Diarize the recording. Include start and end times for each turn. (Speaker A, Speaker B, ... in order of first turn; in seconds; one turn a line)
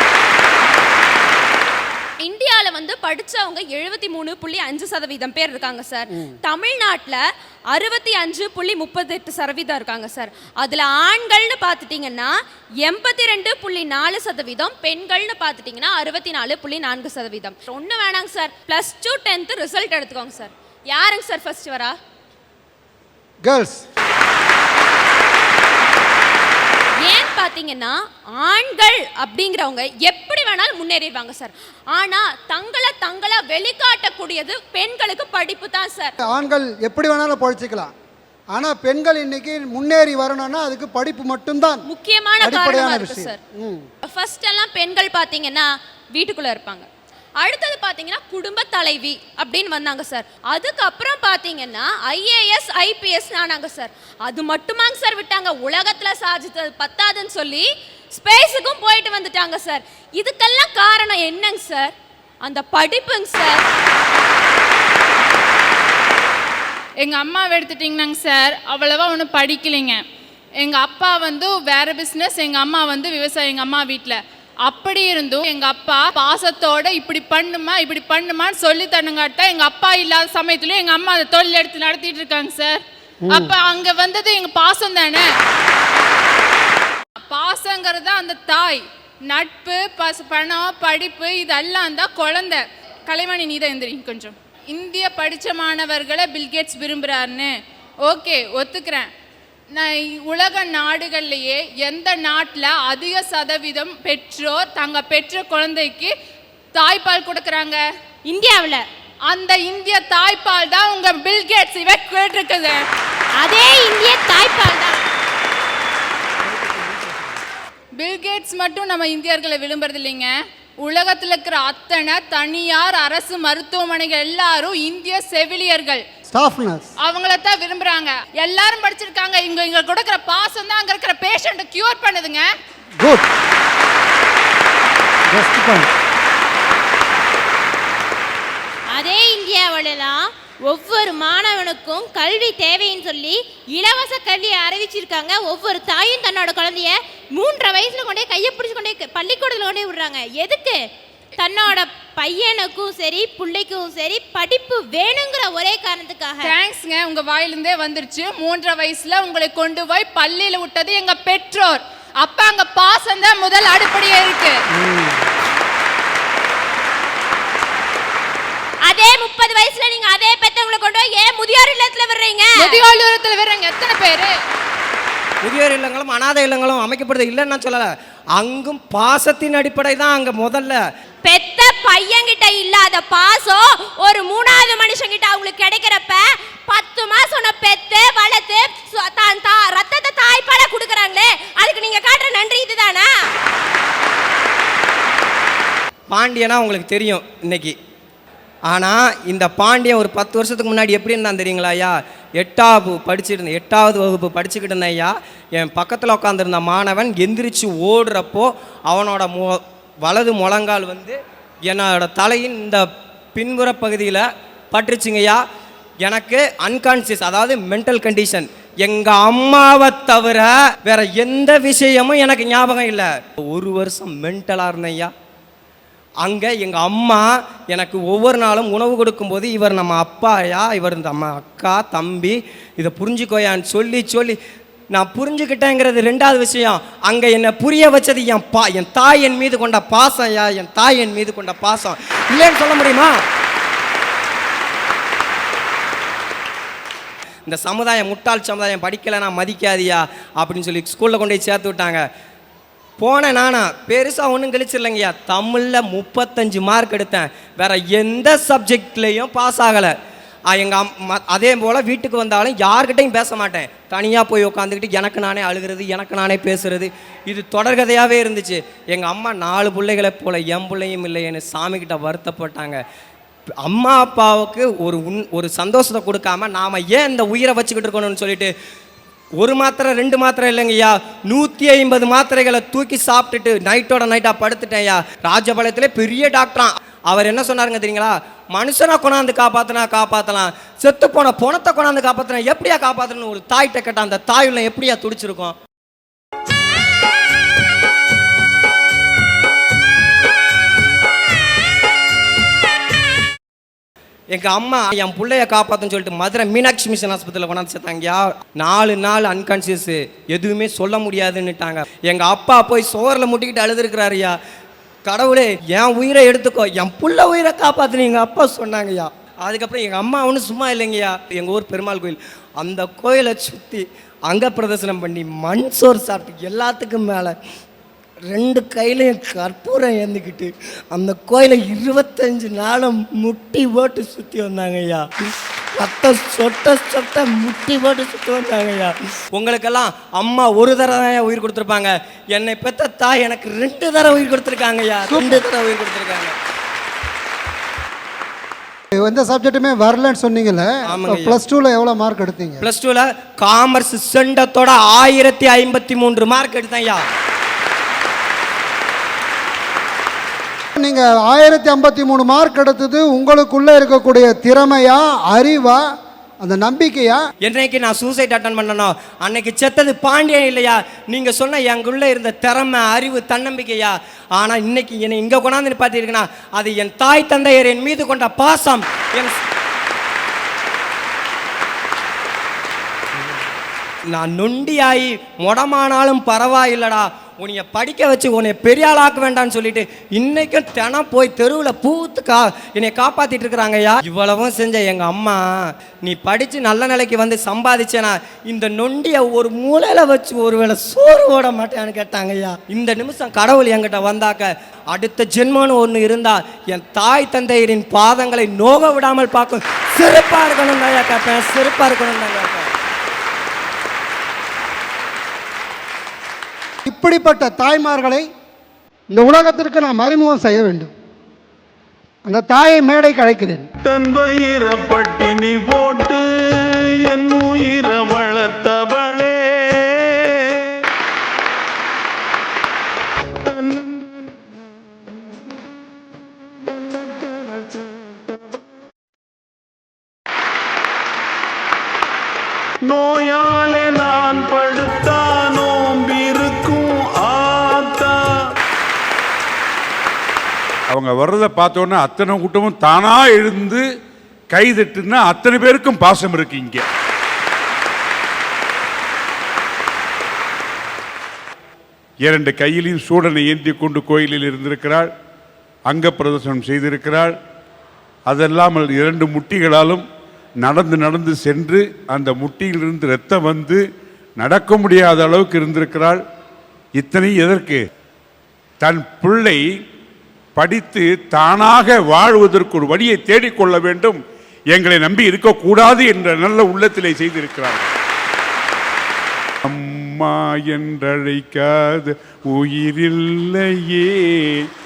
Speaker A: 2.2-22.0
Speaker B: 23.4-23.8
Speaker A: 27.1-36.1
Speaker B: 36.2-37.9
Speaker B: 38.5-41.9
Speaker A: 41.9-43.4
Speaker B: 42.4-43.9
Speaker A: 44.0-46.9
Speaker A: 47.4-63.7
Speaker C: 67.0-70.0
Speaker C: 70.6-85.3
Speaker B: 83.2-83.5
Speaker C: 87.3-97.5
Speaker C: 98.0-99.1
Speaker C: 99.7-106.1
Speaker C: 106.8-107.8
Speaker D: 108.2-108.9
Speaker C: 109.3-112.8
Speaker D: 113.4-115.0
Speaker B: 116.5-117.4
Speaker C: 118.0-126.0
Speaker B: 126.3-126.9
Speaker C: 127.0-132.5
Speaker B: 133.0-133.3
Speaker B: 135.3-135.9
Speaker D: 138.9-150.8
Speaker D: 151.4-156.5
Speaker C: 156.4-164.6
Speaker B: 164.7-165.3
Speaker D: 168.8-172.8
Speaker C: 172.5-174.3
Speaker E: 175.4-180.8
Speaker D: 181.2-193.1
Speaker E: 196.1-197.8
Speaker E: 198.7-212.8
Speaker E: 213.3-215.4
Speaker E: 216.0-225.1
Speaker E: 226.2-234.4
Speaker E: 234.9-243.2
Speaker E: 247.5-252.1
Speaker E: 253.0-259.9
Speaker E: 260.5-272.8
Speaker E: 273.6-278.5
Speaker E: 279.4-295.6
Speaker E: 304.3-314.4
Speaker E: 315.1-327.4
Speaker E: 328.3-335.1
Speaker E: 335.8-346.4
Speaker B: 345.1-345.5
Speaker B: 348.9-352.6
Speaker E: 350.9-351.4
Speaker E: 352.6-357.0
Speaker B: 360.8-365.8
Speaker B: 366.4-367.2
Speaker E: 367.4-379.4
Speaker E: 384.1-395.5
Speaker E: 396.1-412.7
Speaker B: 416.9-418.3
Speaker B: 419.1-420.9
Speaker B: 422.3-423.7
Speaker F: 423.9-426.2
Speaker F: 427.1-430.0
Speaker F: 442.9-448.2
Speaker G: 450.9-453.8
Speaker G: 454.5-456.9
Speaker G: 462.2-465.1
Speaker G: 465.9-467.4
Speaker G: 468.3-470.1
Speaker G: 470.6-473.8
Speaker G: 474.4-476.2
Speaker G: 477.0-477.8
Speaker G: 478.8-479.6
Speaker G: 480.6-484.2
Speaker G: 484.7-487.9
Speaker G: 489.6-494.7